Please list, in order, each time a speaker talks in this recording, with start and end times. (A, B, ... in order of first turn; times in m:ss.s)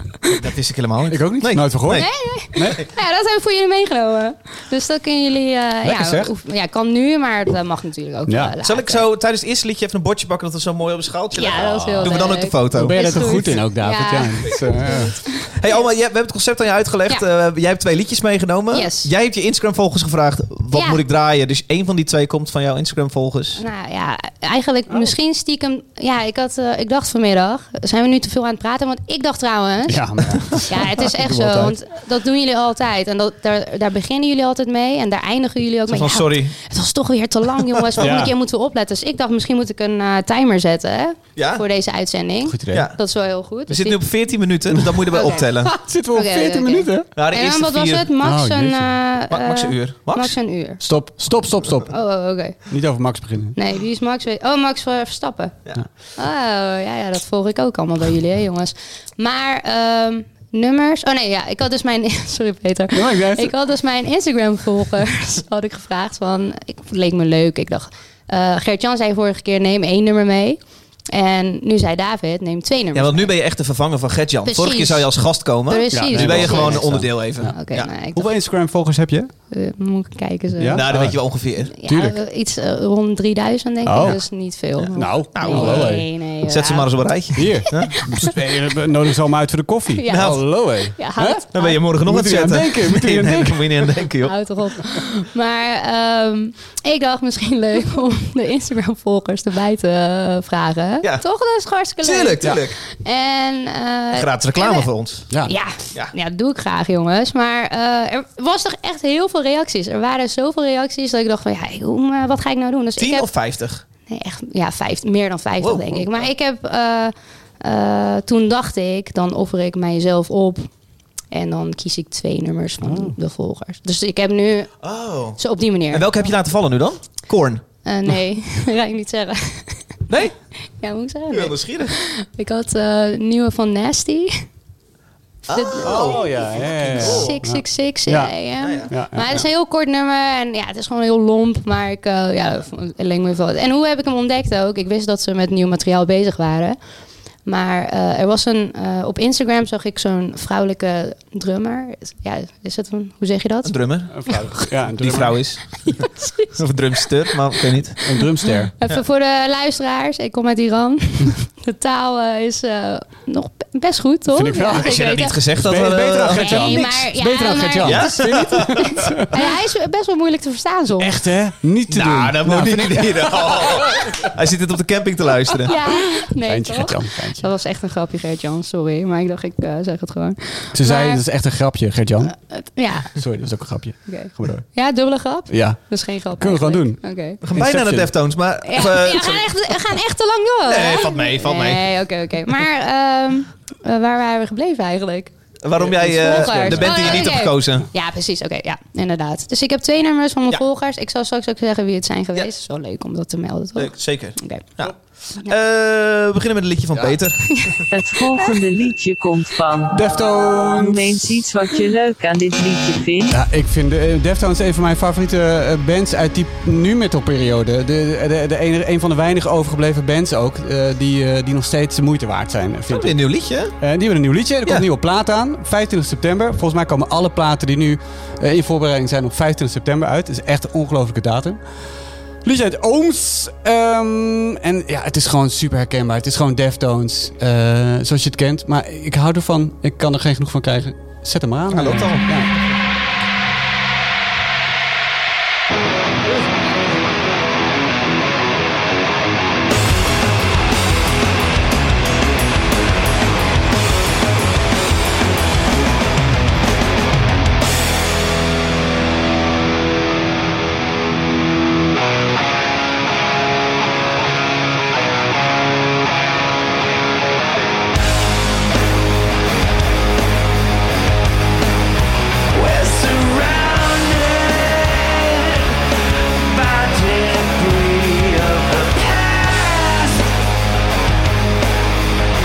0:00.2-0:02.1 A
0:01.1-0:02.9 B
0:01.9-0:09.1 C
0:05.8-0:06.3 B
0:08.3-0:08.5 B
0:08.6-0:13.6 A
0:11.3-0:15.8 C
0:12.7-0:15.2 B
0:15.4-0:23.6 A
0:18.7-0:19.1 C
0:20.7-0:21.0 C
0:23.6-0:44.0 C
0:29.9-0:31.8 B
0:35.9-0:36.6 A
0:37.7-0:38.1 A
0:38.0-0:38.4 B
0:41.4-0:41.6 A
0:42.5-0:42.9 B
0:42.7-0:43.0 A
0:43.7-0:45.7 A
0:44.7-0:45.1 B
0:45.1-0:50.8 C
0:45.6-0:47.1 B
0:47.2-0:48.1 A
0:48.2-0:49.0 B
0:49.3-0:50.4 A
0:50.8-0:53.6 B
0:51.9-0:52.6 C
0:53.6-0:55.6 C
0:56.2-1:13.3 C
1:02.9-1:03.5 B
1:12.9-1:17.9 A
1:14.5-1:15.1 C
1:15.7-1:18.3 C
1:15.9-1:17.5 B
1:18.1-1:19.3 B
1:19.5-1:20.9 C
1:20.6-1:22.2 B
1:20.7-1:21.7 A
1:21.8-1:28.3 C
1:23.8-1:24.3 B
1:24.8-1:28.0 A
1:24.9-1:26.1 B
1:27.4-1:31.4 B
1:30.0-1:31.8 C
1:30.1-1:30.5 A
1:31.5-1:34.4 A
1:32.0-1:33.7 B
1:34.2-1:44.9 C
1:42.0-1:42.8 A
1:44.1-1:45.3 A
1:45.4-1:53.3 C
1:53.0-1:53.8 A
1:54.1-2:00.7 C
1:55.6-1:56.3 A
2:01.3-2:04.8 C
2:02.8-2:03.2 B
2:04.8-2:07.6 A
2:05.4-2:06.1 C
2:07.8-2:10.0 C
2:10.1-2:10.4 A
2:10.7-2:14.5 C
2:11.3-2:12.0 A
2:15.5-2:17.4 A
2:15.5-2:16.4 C
2:15.8-2:19.5 B
2:17.0-2:26.8 C
2:18.6-2:18.9 A
2:27.4-2:33.8 C
2:33.6-2:38.1 A
2:34.1-2:35.6 B
2:35.8-2:36.6 C
2:38.0-2:38.9 B
2:38.6-2:45.4 C
2:44.3-2:45.0 B
2:44.7-2:46.9 A
2:45.6-2:49.4 B
2:46.3-2:51.2 C
2:47.8-2:49.1 A
2:51.0-2:54.3 B
2:51.9-2:55.8 A
2:55.6-3:01.2 C
2:55.7-2:57.4 B
3:00.7-3:02.3 B
3:02.3-3:03.2 C
3:03.1-3:04.8 B
3:04.1-3:07.4 C
3:05.5-3:08.1 B
3:07.4-3:09.7 A
3:08.6-3:15.3 C
3:10.6-3:12.0 A
3:15.6-3:17.9 A
3:15.8-3:17.3 B
3:16.0-3:24.6 C
3:23.8-3:27.8 A
3:27.4-3:27.9 C
3:27.9-3:30.0 D
3:29.9-3:31.3 B
3:30.8-3:33.4 D
3:33.3-3:43.2 B
3:42.9-3:43.7 A
3:43.8-3:51.6 B
3:52.4-4:02.5 B
4:01.7-4:02.3 A
4:32.5-4:35.7 E
4:36.4-4:40.3 E